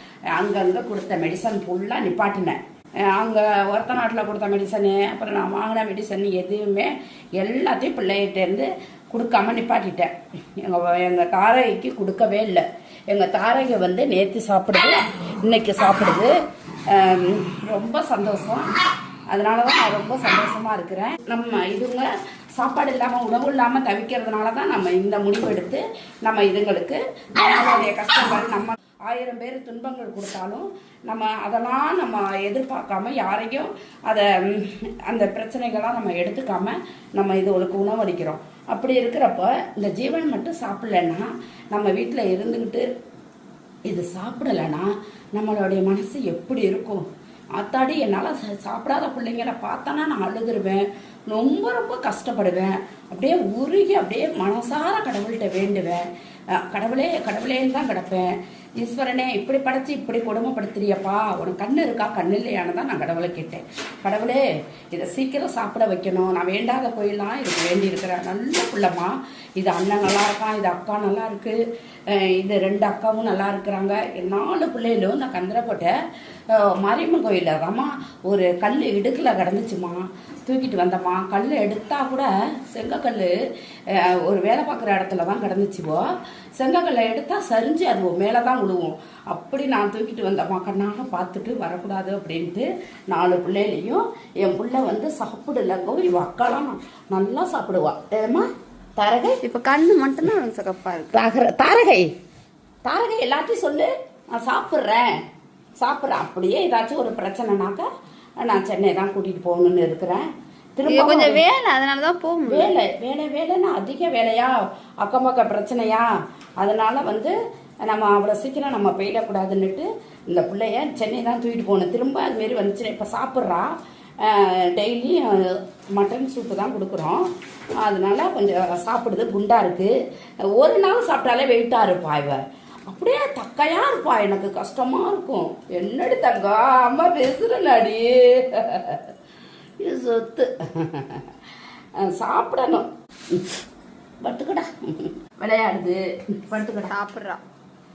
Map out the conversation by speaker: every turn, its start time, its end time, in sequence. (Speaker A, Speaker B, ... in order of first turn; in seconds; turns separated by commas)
Speaker A: 0.3-16.3, Speaker A: 16.9-18.7, Speaker A: 19.3-42.9, Speaker A: 43.9-75.9, Speaker A: 76.5-83.3, Speaker A: 83.9-99.4, Speaker B: 99.4-101.1, Speaker A: 101.1-102.1, Speaker A: 102.8-105.1, Speaker A: 105.8-107.9, Speaker A: 108.4-111.4, Speaker B: 110.9-112.7, Speaker A: 112.5-116.1, Speaker A: 116.6-117.3, Speaker A: 117.8-127.3, Speaker A: 127.8-129.9, Speaker A: 130.5-139.0, Speaker A: 139.8-141.2, Speaker A: 142.0-143.5, Speaker A: 144.2-146.9, Speaker B: 146.8-147.4